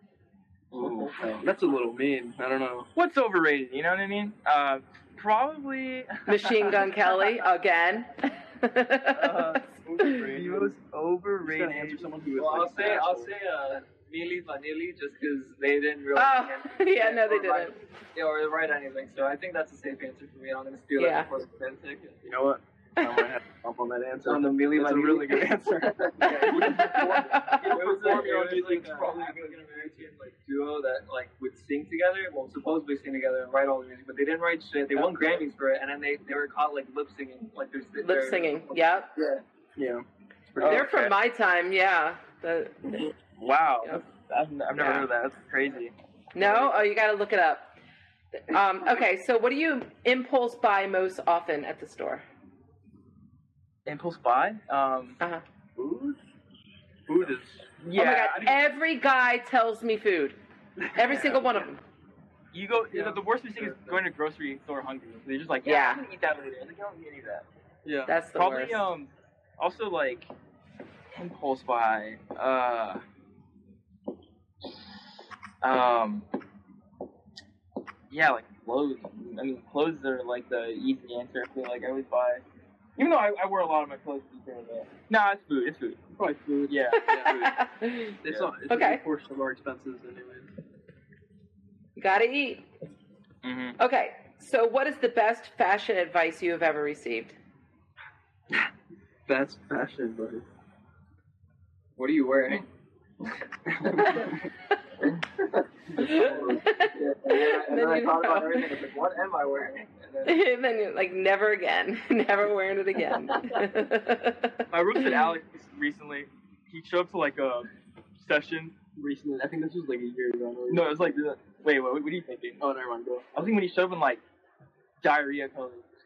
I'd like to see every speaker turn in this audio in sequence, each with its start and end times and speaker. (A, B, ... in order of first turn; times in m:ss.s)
0:00.7-0:02.9 A
0:00.8-0:01.4 B
0:02.9-0:06.9 C
0:06.2-0:10.1 D
0:09.2-0:12.1 C
0:10.2-0:13.3 A
0:12.3-0:22.2 B
0:16.1-0:17.7 D
0:21.0-0:21.3 D
0:22.2-0:30.0 A
0:23.0-0:23.3 D
0:24.2-0:39.4 B
0:26.4-0:27.8 D
0:38.0-0:39.1 D
0:39.8-0:40.9 A
0:40.6-0:41.2 C
0:40.6-0:43.1 D
0:43.4-0:45.9 C
0:44.7-0:45.1 D
0:46.3-0:47.7 D
0:46.4-0:46.7 C
0:48.3-0:52.2 D
0:53.8-0:55.2 C
0:55.8-0:56.2 C
0:57.1-0:57.6 A
0:57.8-0:58.6 C
0:57.9-1:00.4 D
1:00.9-1:01.8 D
1:01.0-1:01.4 C
1:02.5-1:07.4 C
1:02.9-1:04.0 A
1:05.6-1:06.0 D
1:07.8-1:08.2 A
1:08.1-1:08.8 D
1:08.3-1:10.3 C
1:11.1-1:13.0 C
1:15.6-1:16.2 C
1:18.1-1:22.4 C
1:23.0-1:26.1 C
1:26.2-1:27.5 A
1:26.7-1:27.4 C
1:26.9-1:28.2 D
1:28.2-1:30.5 A
1:28.2-1:28.5 C
1:28.7-1:29.0 D
1:32.0-1:32.7 D
1:33.4-1:33.8 C
1:33.8-1:37.4 D
1:39.3-1:40.5 A
1:42.0-1:42.6 A
1:43.7-1:44.3 A
1:45.9-1:47.8 A
1:46.0-1:48.8 D
1:46.9-1:50.4 B
1:50.2-1:55.0 D
1:54.7-1:58.7 C
1:59.0-2:01.2 A
2:00.7-2:02.6 C
2:02.6-2:03.2 A
2:03.3-2:04.2 C
2:05.0-2:05.9 C